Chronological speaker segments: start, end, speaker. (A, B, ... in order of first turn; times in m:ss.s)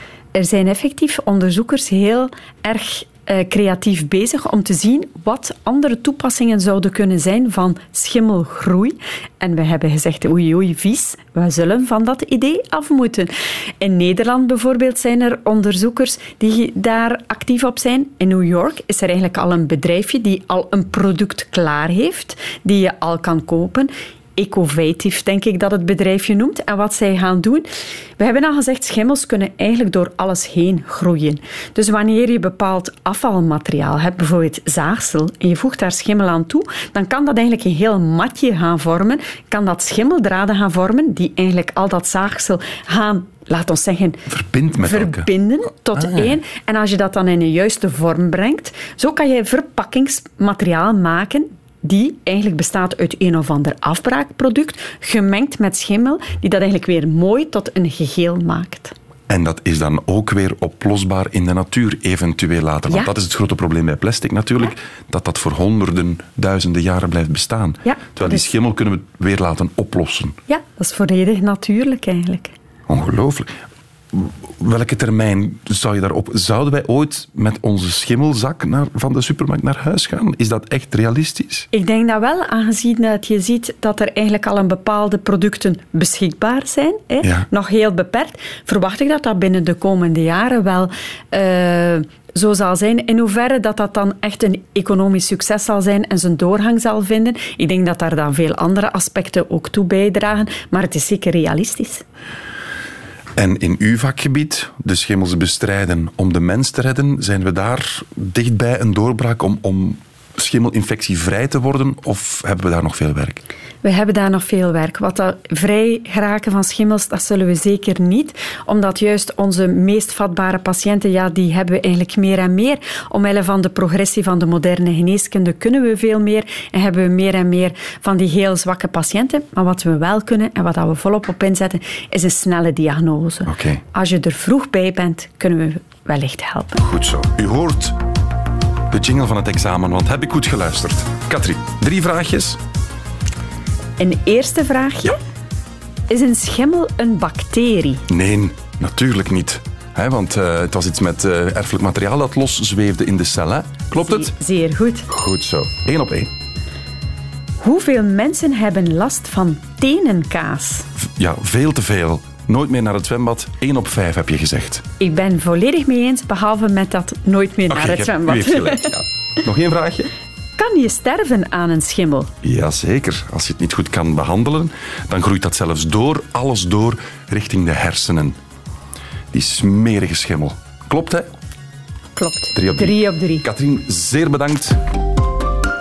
0:00.3-0:27.6 A
0:28.2-0:58.9 A
0:44.3-0:45.3 B
0:46.0-0:46.4 B
0:59.3-1:10.4 B
1:07.8-1:08.4 A
1:10.5-1:12.5 A
1:12.9-1:13.5 B
1:14.1-1:21.7 B
1:21.7-1:42.0 A
1:43.4-1:53.4 B
1:53.8-2:16.8 A
2:13.5-2:13.8 B
2:16.8-2:18.0 B
2:18.9-2:22.6 B
2:24.0-2:25.2 A
2:26.1-2:28.0 A
2:28.1-2:34.3 B
2:34.0-2:35.1 A
2:35.1-2:36.3 B
2:37.6-2:40.9 A
2:41.0-2:44.8 B
2:45.0-2:49.0 A
2:47.7-2:50.1 B
2:50.6-2:52.3 A
2:52.4-2:58.4 B
2:59.3-3:01.3 B
3:02.2-3:03.4 A
3:02.5-3:04.8 B